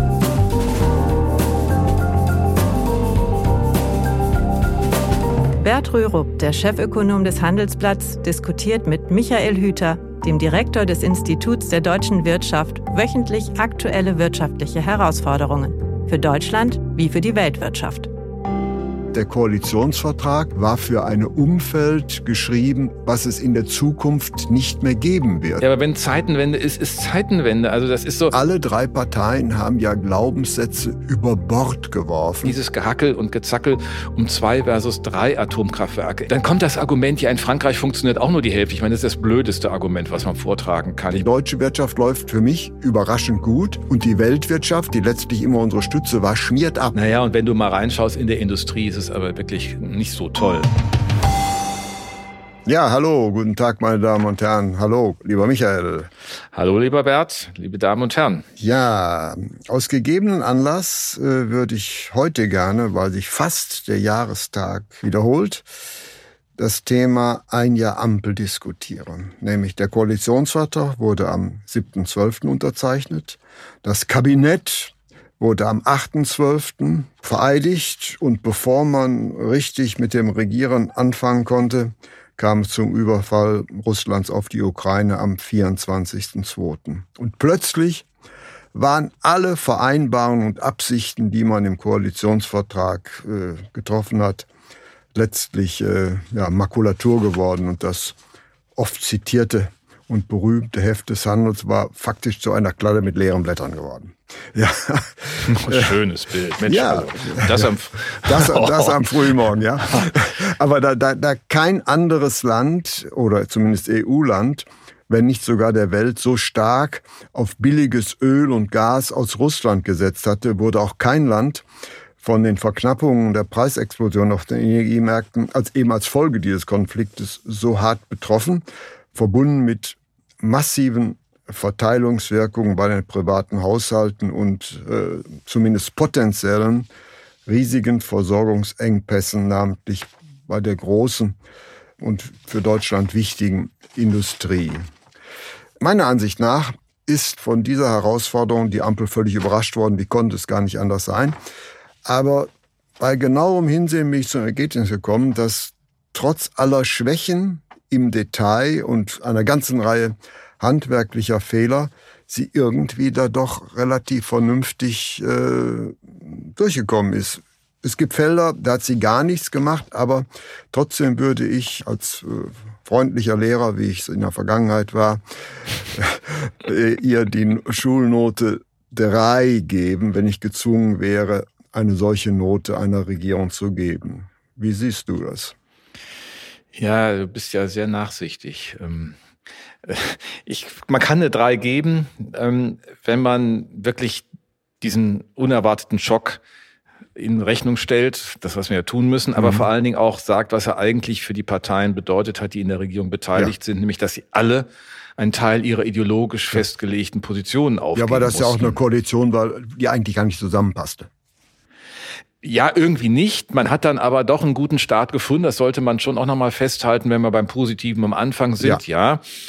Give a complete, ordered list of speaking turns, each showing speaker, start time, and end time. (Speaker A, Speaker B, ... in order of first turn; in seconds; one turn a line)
Speaker A: 5.6-18.1
Speaker B: 19.1-25.7
Speaker C: 25.6-28.3
Speaker B: 28.3-32.6
Speaker C: 32.4-41.2
Speaker B: 41.1-47.0
Speaker C: 46.9-50.7
Speaker B: 52.6-56.1
Speaker C: 56.5-58.4
Speaker B: 58.6-65.7
Speaker B: 66.6-88.0
Speaker B: 88.7-94.5
Speaker B: 95.1-98.2
Speaker B: 98.8-105.9
Speaker C: 105.4-110.1
Speaker B: 106.6-107.7
Speaker B: 108.2-121.6
Speaker B: 122.2-136.9
Speaker B: 137.4-141.4
Speaker B: 142.0-144.8
Speaker B: 145.8-151.3
Speaker B: 152.0-175.2
Speaker B: 175.8-185.5
Speaker C: 186.7-189.2
Speaker C: 189.8-194.2
Speaker C: 194.8-196.4
Speaker C: 197.2-208.7
Speaker B: 199.4-199.7
Speaker B: 207.9-211.1
Speaker C: 212.4-219.2